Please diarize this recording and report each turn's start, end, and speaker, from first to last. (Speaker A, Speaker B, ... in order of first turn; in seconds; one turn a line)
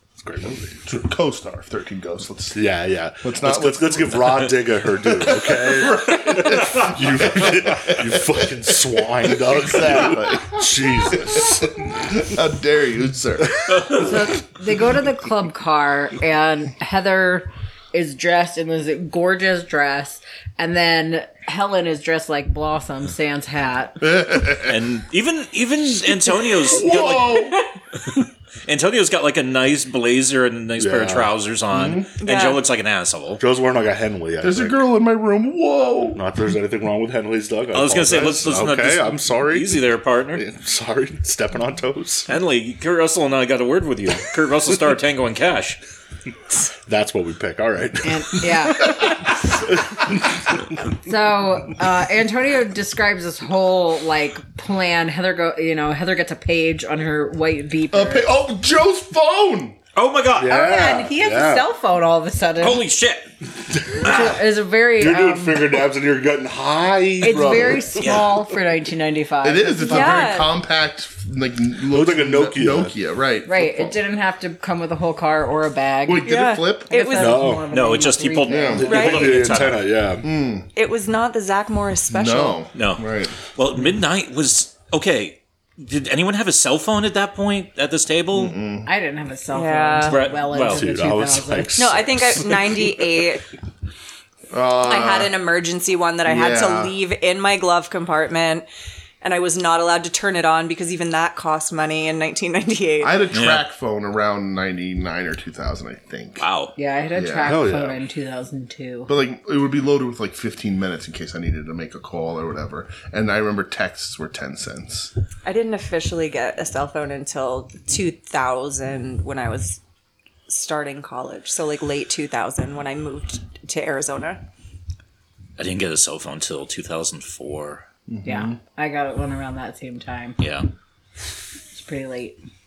Speaker A: 0.2-0.8
Speaker B: 0.8-2.6
Speaker A: 2.5-11.9
Speaker B: 3.2-4.5
Speaker B: 5.0-8.6
Speaker B: 9.2-14.1
Speaker C: 13.9-24.1
Speaker B: 24.0-24.7
Speaker D: 24.6-27.6
Speaker B: 26.6-27.6
Speaker D: 28.6-33.4
Speaker A: 30.8-31.3
Speaker B: 31.7-32.0
Speaker E: 32.2-32.6
Speaker A: 33.4-34.8
Speaker B: 34.4-36.2
Speaker A: 36.1-39.8
Speaker D: 37.7-40.4
Speaker A: 40.3-42.3
Speaker D: 42.3-45.8
Speaker A: 46.9-50.6
Speaker C: 48.0-49.1
Speaker C: 51.0-58.2
Speaker B: 57.9-59.8
Speaker D: 59.9-60.6
Speaker A: 60.4-61.7
Speaker C: 60.5-62.8
Speaker D: 62.6-64.3
Speaker A: 63.7-64.2
Speaker C: 63.9-65.8
Speaker A: 65.0-68.4
Speaker C: 67.2-70.3
Speaker D: 68.0-68.3
Speaker B: 69.4-74.0
Speaker E: 69.9-70.5
Speaker A: 71.9-72.9
Speaker C: 73.5-79.0
Speaker B: 76.0-76.9
Speaker E: 76.2-77.5
Speaker A: 77.2-77.6
Speaker D: 77.7-79.9
Speaker B: 78.5-79.0
Speaker A: 78.8-80.3
Speaker E: 78.9-79.3
Speaker B: 80.2-80.7
Speaker E: 80.7-82.6
Speaker B: 82.1-83.3
Speaker D: 82.7-88.6
Speaker B: 88.3-88.9
Speaker C: 88.8-91.8
Speaker E: 89.5-90.3
Speaker D: 90.1-90.8
Speaker A: 90.6-92.9
Speaker E: 91.8-93.5
Speaker B: 94.5-95.3
Speaker E: 94.9-98.7
Speaker B: 96.2-96.9
Speaker E: 99.2-103.1
Speaker B: 103.0-106.4
Speaker D: 103.3-103.6
Speaker D: 106.4-106.7
Speaker C: 106.8-109.1
Speaker B: 107.1-107.6
Speaker A: 107.4-108.0
Speaker B: 109.1-115.1
Speaker E: 115.4-119.8
Speaker E: 120.5-124.4
Speaker D: 125.6-127.8
Speaker B: 128.1-128.6
Speaker C: 128.2-130.4
Speaker D: 130.4-130.7
Speaker C: 131.7-132.4